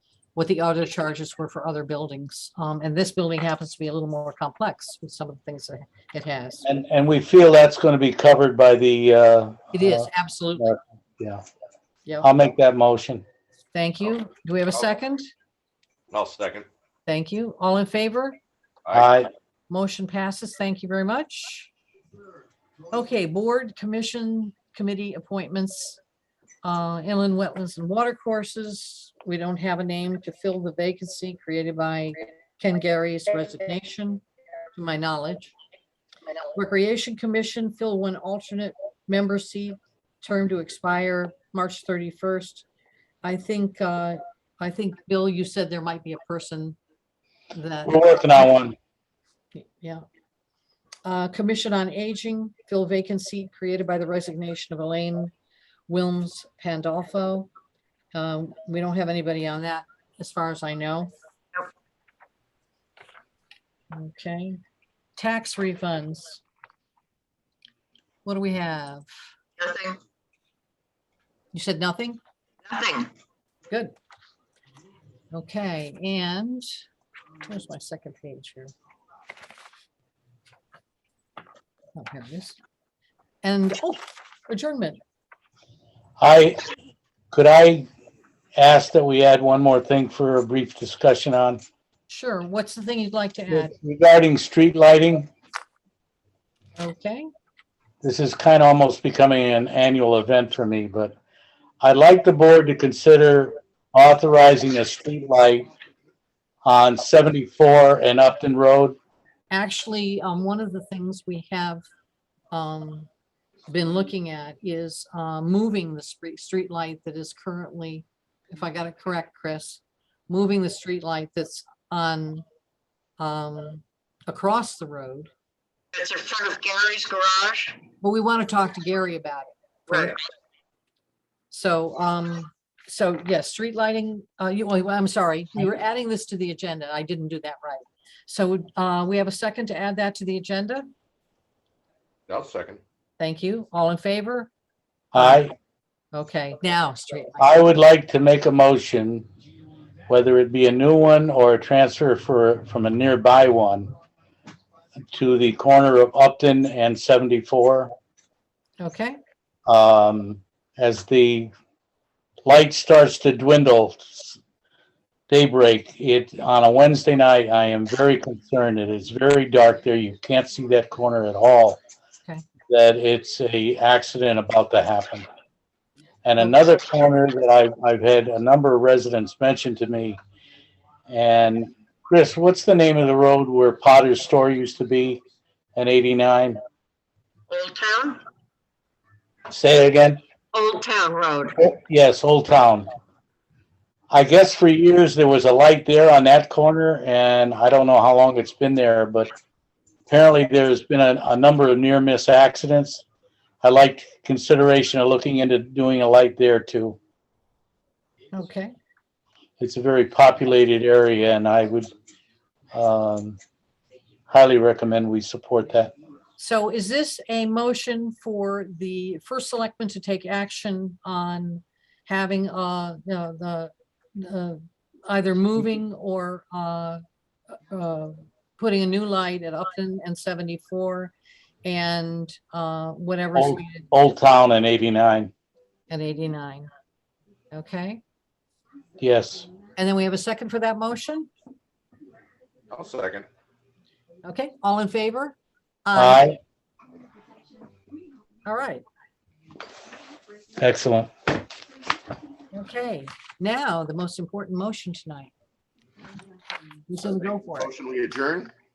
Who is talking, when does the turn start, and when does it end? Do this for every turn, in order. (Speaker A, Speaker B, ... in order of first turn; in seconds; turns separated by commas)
Speaker A: 0.3-6.7, Speaker B: 6.6-10.1, Speaker A: 9.7-10.8, Speaker B: 10.6-11.4, Speaker B: 12.2-13.2, Speaker A: 13.7-15.3, Speaker C: 16.1-16.7, Speaker A: 17.1-18.4, Speaker B: 18.9-19.3, Speaker A: 19.7-21.7, Speaker A: 22.9-26.0, Speaker A: 26.6-34.2, Speaker A: 34.7-35.5, Speaker A: 36.5-42.6, Speaker A: 43.2-46.8, Speaker A: 47.5-48.5, Speaker B: 47.9-48.8, Speaker A: 49.5-50.0, Speaker A: 51.0-55.3, Speaker A: 55.9-57.5, Speaker A: 58.1-61.1, Speaker A: 63.9-64.6, Speaker A: 65.2-66.4, Speaker A: 68.2-69.0, Speaker D: 69.6-70.0, Speaker A: 71.5-72.2, Speaker D: 72.7-73.1, Speaker A: 75.3-76.7, Speaker A: 77.5-78.7, Speaker A: 82.0-82.6, Speaker A: 83.4-85.0, Speaker B: 86.2-86.6, Speaker B: 87.3-87.8, Speaker B: 88.5-91.6, Speaker A: 92.1-93.7, Speaker B: 93.5-95.3, Speaker A: 96.8-97.3, Speaker B: 98.0-101.1, Speaker B: 101.8-105.7, Speaker B: 106.6-109.0, Speaker A: 109.5-111.8, Speaker A: 112.5-113.1, Speaker A: 113.7-122.4, Speaker A: 123.2-125.3, Speaker D: 125.9-127.8, Speaker A: 128.0-130.2, Speaker A: 131.5-140.9, Speaker C: 142.3-142.8, Speaker A: 143.2-144.5, Speaker B: 145.1-145.5, Speaker A: 145.1-145.4, Speaker A: 146.1-147.6, Speaker B: 147.4-149.2, Speaker B: 150.1-153.9, Speaker B: 155.1-157.9, Speaker A: 158.8-159.2, Speaker B: 159.7-161.5, Speaker B: 162.4-164.4, Speaker B: 165.3-171.8, Speaker B: 172.7-175.3, Speaker B: 176.2-180.2, Speaker A: 176.4-176.7, Speaker B: 181.1-185.2, Speaker B: 185.8-186.6, Speaker D: 187.5-188.2, Speaker B: 189.5-190.2, Speaker D: 190.5-191.6, Speaker B: 191.6-192.9, Speaker B: 194.1-199.3, Speaker B: 200.1-203.0, Speaker B: 203.6-207.0, Speaker A: 208.3-208.7, Speaker B: 209.6-211.9, Speaker B: 212.7-213.4, Speaker B: 214.3-215.9, Speaker A: 216.4-231.1, Speaker A: 231.6-233.8, Speaker B: 233.3-235.3, Speaker A: 235.9-236.7, Speaker A: 237.5-238.0, Speaker B: 239.0-239.4, Speaker A: 239.8-241.3, Speaker C: 242.7-243.3, Speaker A: 244.2-246.3, Speaker B: 245.9-246.3, Speaker A: 248.4-248.8, Speaker B: 250.6-251.1, Speaker A: 252.5-255.3, Speaker A: 256.9-257.7, Speaker C: 257.0-258.5